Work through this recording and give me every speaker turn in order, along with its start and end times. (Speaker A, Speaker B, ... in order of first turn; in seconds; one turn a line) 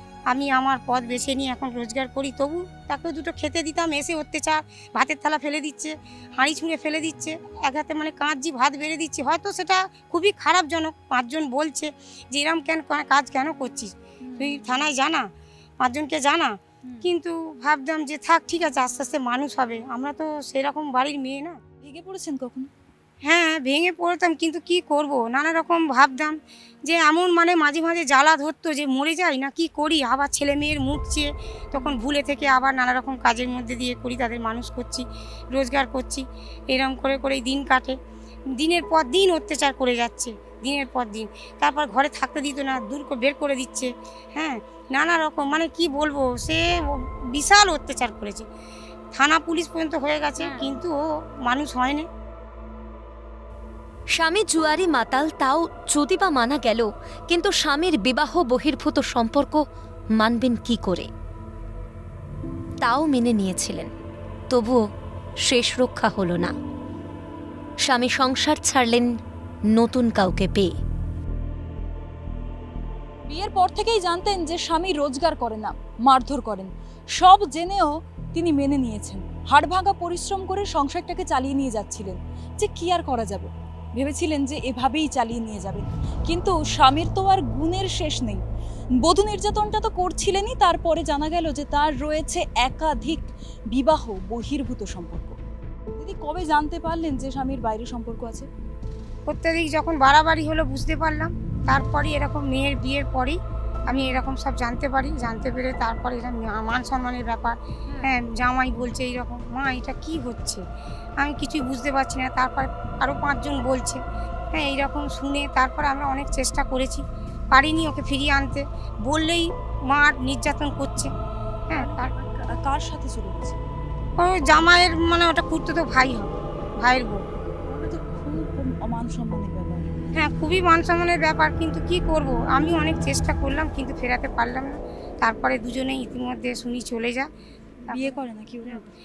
Speaker A: 0.3-15.2
Speaker B: 14.2-14.8
Speaker A: 15.8-21.6
Speaker B: 21.8-22.7
Speaker A: 23.2-38.0
Speaker A: 38.6-48.5
Speaker A: 49.1-52.1
Speaker C: 54.1-59.6
Speaker C: 60.2-61.1
Speaker C: 62.8-63.9
Speaker C: 64.5-64.8
Speaker C: 65.4-66.5
Speaker C: 67.8-69.1
Speaker C: 69.7-70.7
Speaker B: 73.3-88.4
Speaker B: 89.0-95.4
Speaker B: 96.0-98.5
Speaker A: 99.3-110.6
Speaker A: 111.2-114.0
Speaker A: 114.5-121.1
Speaker A: 121.7-122.1
Speaker B: 121.7-123.6
Speaker A: 124.2-127.2
Speaker B: 127.6-129.9
Speaker A: 130.1-137.3
Speaker B: 137.9-138.8